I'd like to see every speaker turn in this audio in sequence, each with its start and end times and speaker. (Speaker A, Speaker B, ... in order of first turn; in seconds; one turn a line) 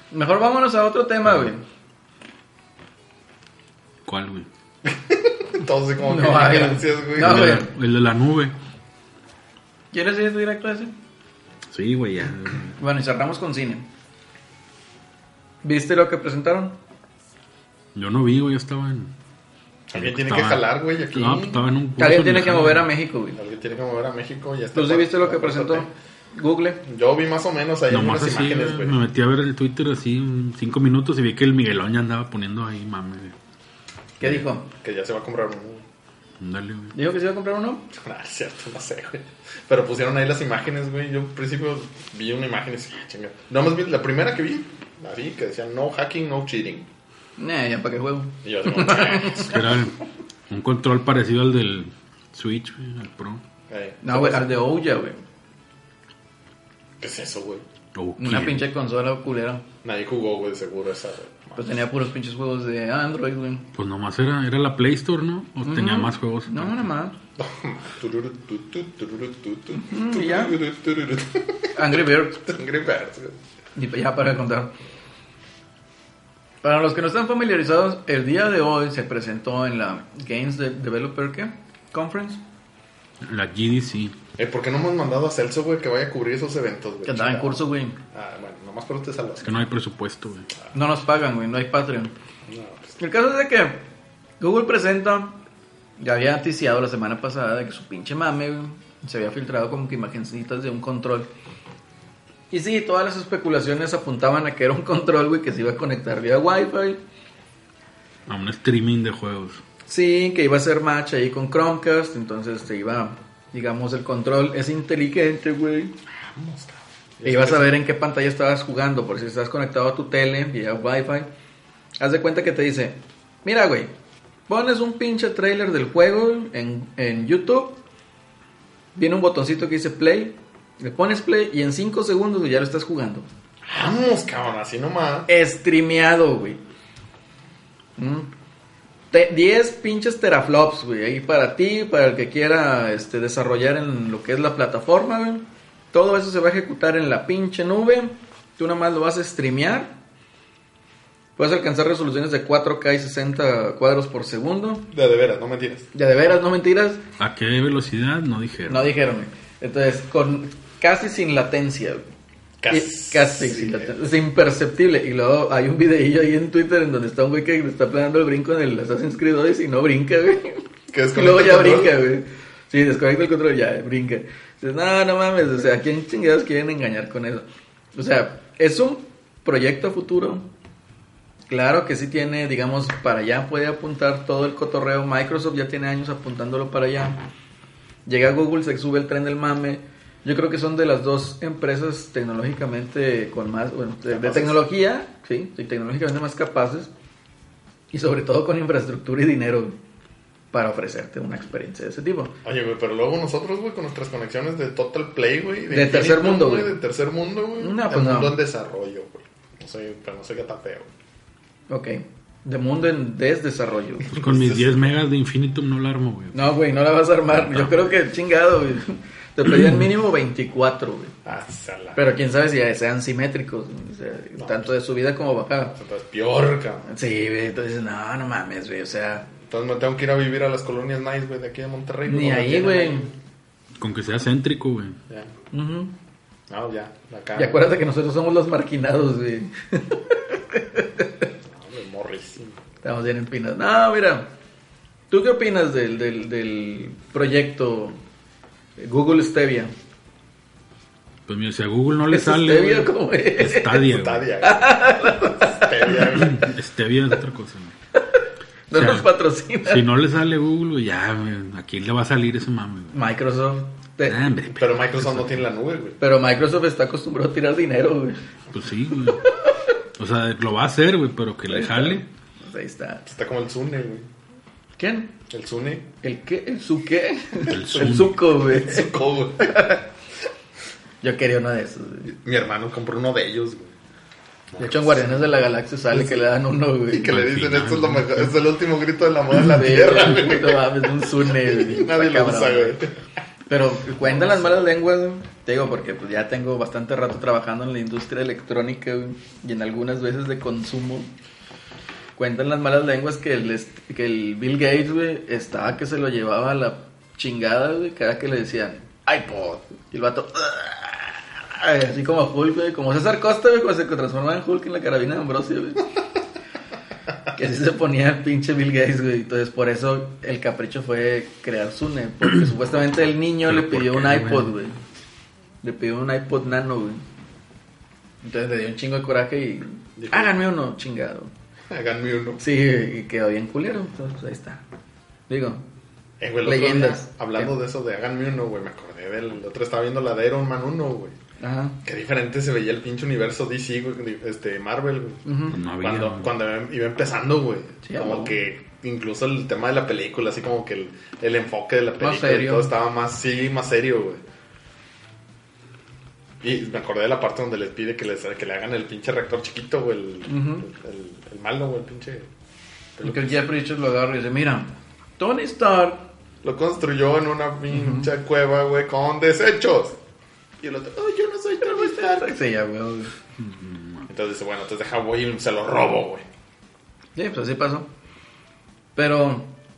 Speaker A: 0.1-1.6
Speaker B: 4.0-4.5
Speaker C: 4.8-7.6
Speaker A: 6.0-7.7
Speaker B: 7.2-8.5
Speaker A: 9.9-10.9
Speaker B: 11.7-12.8
Speaker A: 12.8-13.8
Speaker A: 15.6-16.8
Speaker B: 17.9-19.1
Speaker C: 19.9-21.6
Speaker B: 19.9-22.9
Speaker A: 22.0-23.4
Speaker C: 23.3-25.9
Speaker A: 24.7-26.8
Speaker C: 26.8-29.0
Speaker B: 27.9-33.3
Speaker A: 34.2-34.7
Speaker C: 34.8-35.9
Speaker B: 36.4-37.0
Speaker A: 36.9-37.9
Speaker C: 37.9-46.9
Speaker A: 47.4-49.6
Speaker C: 48.4-49.6
Speaker B: 49.5-49.9
Speaker B: 50.5-53.4
Speaker C: 53.7-54.5
Speaker A: 54.0-55.2
Speaker C: 57.0-57.6
Speaker B: 57.9-58.6
Speaker A: 58.2-59.6
Speaker C: 59.8-61.8
Speaker A: 61.5-63.6
Speaker B: 63.7-66.9
Speaker A: 65.6-67.1
Speaker C: 67.3-73.4
Speaker A: 69.8-70.6
Speaker A: 71.7-72.4
Speaker A: 73.7-74.7
Speaker A: 76.6-82.4
Speaker B: 83.2-84.2
Speaker C: 84.4-89.6
Speaker A: 87.0-88.0
Speaker B: 89.4-90.5
Speaker A: 90.7-92.1
Speaker C: 92.5-93.0
Speaker A: 93.0-93.9
Speaker A: 94.4-95.4
Speaker A: 96.0-101.3
Speaker A: 102.5-107.0
Speaker B: 108.3-109.6
Speaker A: 109.9-115.9
Speaker C: 116.1-117.8
Speaker A: 117.2-121.3
Speaker A: 122.0-123.9
Speaker A: 124.5-127.8
Speaker A: 128.9-133.3
Speaker C: 133.7-135.3
Speaker A: 135.3-136.6
Speaker A: 138.0-138.3
Speaker A: 139.1-149.9
Speaker A: 151.4-154.9
Speaker C: 154.9-155.9
Speaker A: 155.9-157.0
Speaker B: 157.2-158.9
Speaker A: 158.7-162.1
Speaker C: 162.6-163.9
Speaker A: 162.7-180.5
Speaker C: 170.9-172.0
Speaker A: 181.5-187.2
Speaker A: 188.1-196.9
Speaker C: 194.1-194.6
Speaker A: 197.9-199.8
Speaker A: 200.5-202.3
Speaker C: 202.4-210.9
Speaker A: 205.7-206.8
Speaker A: 207.6-208.4
Speaker A: 211.7-214.1
Speaker C: 214.1-214.8
Speaker B: 214.1-216.5
Speaker A: 216.3-221.1
Speaker B: 217.3-217.9
Speaker C: 221.2-222.1
Speaker A: 221.9-225.7
Speaker C: 224.4-224.7
Speaker C: 225.7-226.9
Speaker A: 226.9-229.3
Speaker C: 229.4-233.1
Speaker A: 232.1-233.1
Speaker B: 233.8-235.0
Speaker A: 235.5-235.9
Speaker C: 236.5-237.6
Speaker A: 237.3-241.3
Speaker C: 241.4-242.6
Speaker A: 242.8-244.3
Speaker A: 245.1-248.0
Speaker A: 248.8-249.7
Speaker B: 251.3-254.3
Speaker A: 252.1-253.9
Speaker C: 253.8-256.5
Speaker A: 254.4-256.1
Speaker B: 256.1-257.7
Speaker A: 257.9-259.8
Speaker B: 258.7-259.1
Speaker B: 259.6-263.0
Speaker A: 262.9-264.2
Speaker B: 264.1-265.4
Speaker C: 264.5-266.0
Speaker A: 266.0-268.2
Speaker B: 268.5-269.2
Speaker A: 269.1-269.6
Speaker B: 270.0-272.1
Speaker A: 271.5-273.0
Speaker C: 273.0-274.1
Speaker A: 274.8-275.1
Speaker C: 275.3-275.9
Speaker A: 276.0-279.8
Speaker B: 277.4-278.3
Speaker C: 278.4-279.8
Speaker A: 281.0-282.1
Speaker C: 282.1-283.7
Speaker C: 284.5-285.2
Speaker A: 284.6-287.1
Speaker C: 286.9-293.0
Speaker B: 287.0-288.3
Speaker A: 289.5-292.8
Speaker A: 293.5-301.1
Speaker C: 294.0-294.6
Speaker A: 302.1-315.8
Speaker A: 317.3-324.8
Speaker B: 323.4-324.5
Speaker A: 325.6-327.0
Speaker A: 328.2-331.3
Speaker C: 330.0-330.4
Speaker C: 331.7-332.4
Speaker A: 332.4-334.6
Speaker A: 335.3-335.6
Speaker C: 336.2-341.2
Speaker A: 336.4-337.5
Speaker A: 341.4-341.8
Speaker C: 341.8-354.2
Speaker A: 345.2-345.6
Speaker B: 345.5-346.3
Speaker A: 347.8-348.4
Speaker A: 352.0-352.7
Speaker C: 356.4-362.3
Speaker A: 360.3-360.7
Speaker C: 363.0-363.4
Speaker A: 363.0-366.1
Speaker C: 366.4-370.0
Speaker A: 367.7-368.1
Speaker C: 370.6-372.4
Speaker A: 371.6-373.1
Speaker B: 373.4-374.1
Speaker C: 374.1-376.2
Speaker A: 377.1-377.9
Speaker A: 378.9-379.5